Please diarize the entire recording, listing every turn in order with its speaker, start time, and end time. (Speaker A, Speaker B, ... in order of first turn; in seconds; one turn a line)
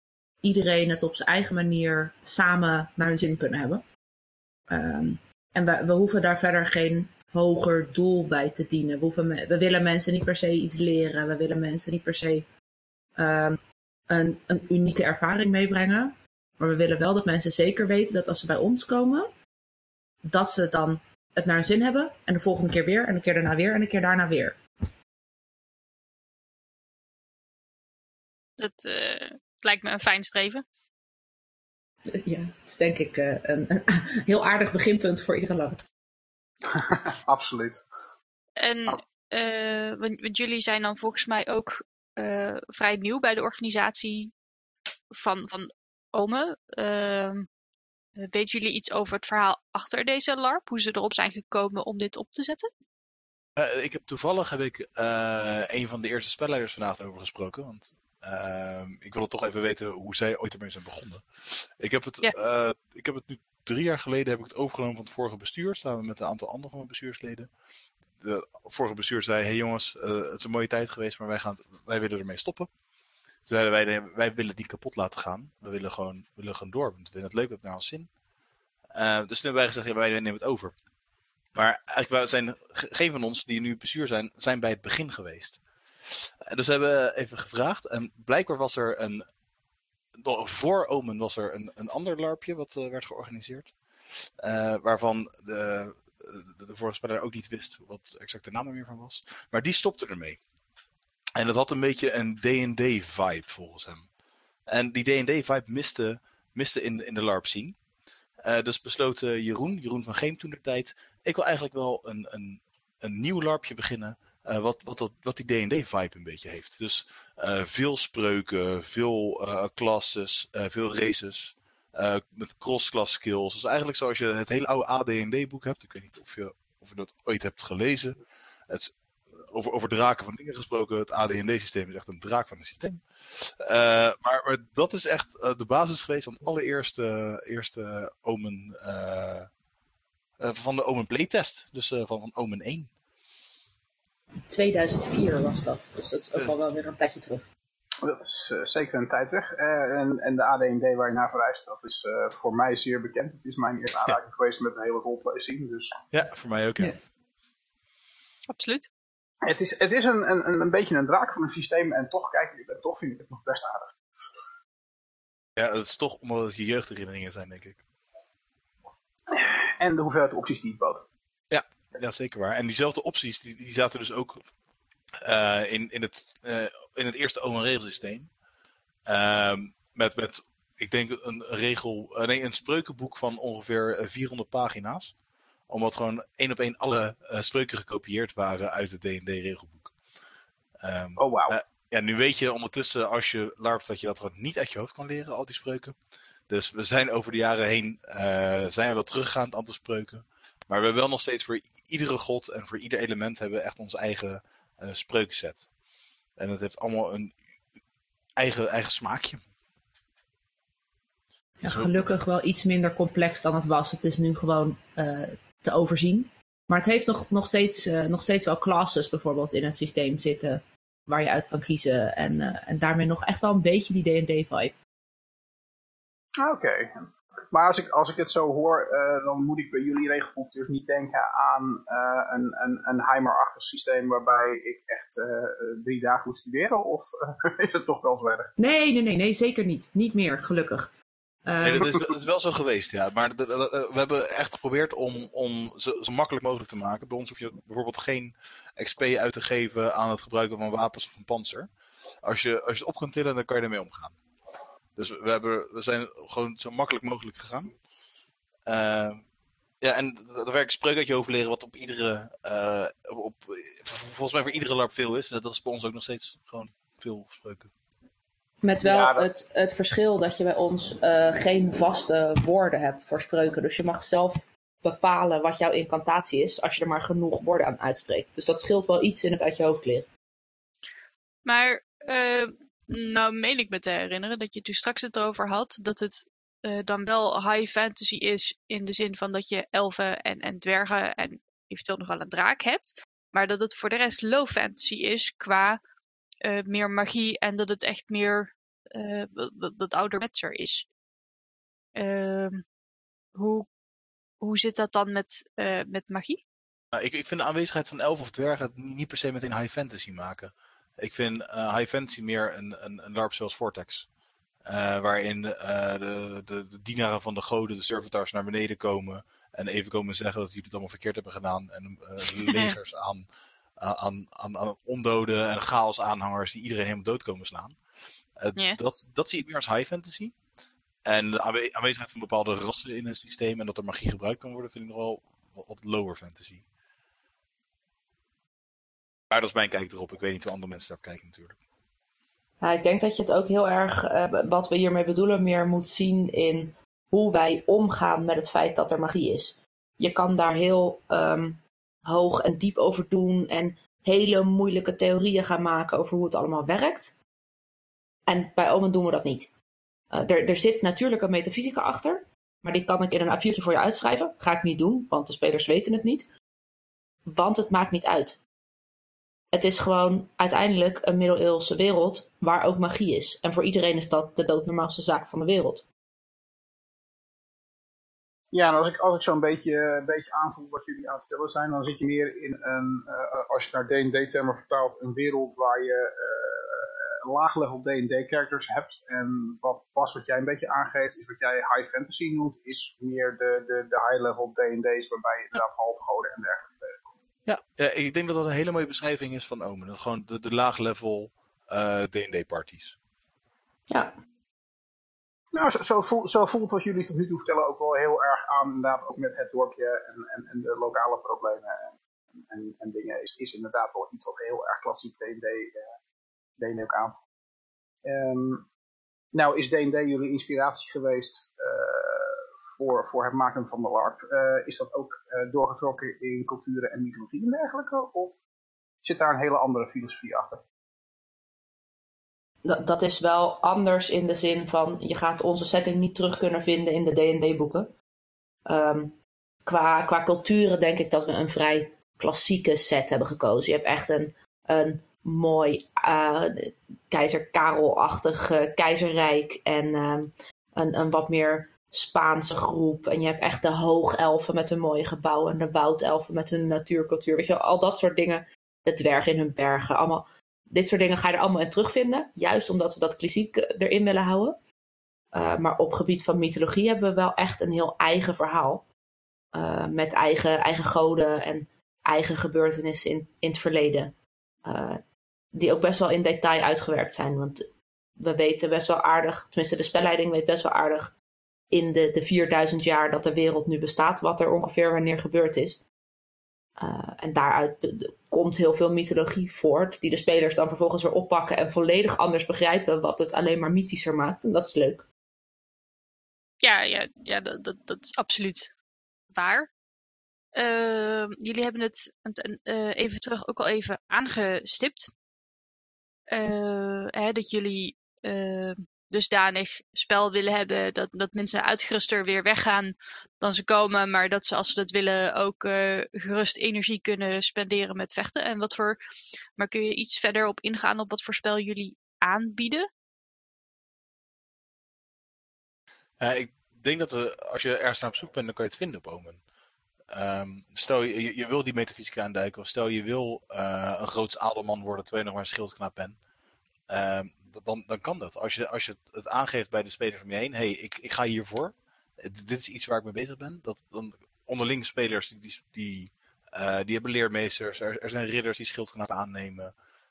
Speaker A: 0.4-3.8
Speaker A: 4.7-12.5
Speaker A: 13.2-19.3
Speaker A: 20.2-24.6
Speaker B: 28.6-30.6
Speaker A: 32.1-35.8
Speaker C: 36.7-37.8
Speaker B: 38.6-44.3
Speaker B: 45.1-47.5
Speaker B: 48.2-52.7
Speaker D: 53.5-67.5
Speaker D: 68.2-72.7
Speaker D: 73.5-78.1
Speaker D: 78.9-80.7
Speaker D: 81.5-89.2
Speaker D: 90.2-100.4
Speaker D: 101.3-104.1
Speaker D: 104.7-107.8
Speaker D: 108.4-139.5
Speaker D: 140.4-142.9
Speaker A: 144.5-147.5
Speaker C: 148.0-156.0
Speaker D: 156.1-157.0
Speaker B: 158.5-158.9
Speaker C: 159.4-164.0
Speaker D: 165.6-167.8
Speaker C: 169.3-171.0
Speaker D: 171.5-174.4
Speaker D: 175.2-178.3
Speaker D: 179.1-185.1
Speaker D: 185.7-189.9
Speaker D: 190.8-195.9
Speaker C: 191.2-191.6
Speaker D: 196.5-205.6
Speaker D: 206.4-207.3
Speaker D: 208.4-209.4
Speaker A: 211.6-224.8
Speaker D: 211.6-211.9
Speaker C: 226.4-238.5
Speaker A: 238.6-240.9
Speaker A: 241.4-241.9
Speaker D: 241.6-251.7
Speaker D: 252.2-254.2
Speaker D: 254.9-257.7
Speaker D: 258.6-259.2
Speaker D: 259.8-267.7
Speaker A: 268.6-280.1
Speaker C: 268.8-269.3
Speaker B: 281.4-295.8
Speaker B: 296.4-300.9
Speaker B: 301.9-302.6
Speaker B: 303.3-303.7
Speaker B: 304.4-306.4
Speaker D: 306.9-314.1
Speaker D: 314.6-323.2
Speaker B: 322.5-322.7
Speaker D: 323.8-327.8
Speaker D: 328.4-330.3
Speaker D: 331.0-336.6
Speaker D: 339.3-341.6
Speaker A: 342.6-357.1
Speaker A: 358.3-359.5
Speaker A: 360.1-366.3
Speaker A: 367.3-368.4
Speaker A: 369.5-375.8
Speaker C: 378.5-397.1
Speaker D: 397.4-402.9
Speaker C: 405.5-415.8
Speaker C: 416.6-417.2
Speaker C: 418.0-418.7
Speaker C: 419.3-428.4
Speaker C: 429.0-430.6
Speaker A: 432.6-437.9
Speaker A: 438.6-464.6
Speaker A: 465.3-468.8
Speaker A: 469.5-475.0
Speaker A: 475.5-481.1
Speaker A: 481.7-485.8
Speaker A: 486.8-495.1
Speaker B: 496.6-498.7
Speaker B: 499.3-499.7
Speaker B: 500.5-505.1
Speaker B: 506.3-519.0
Speaker B: 519.6-522.9
Speaker D: 526.2-529.4
Speaker D: 530.1-536.2
Speaker D: 536.9-549.7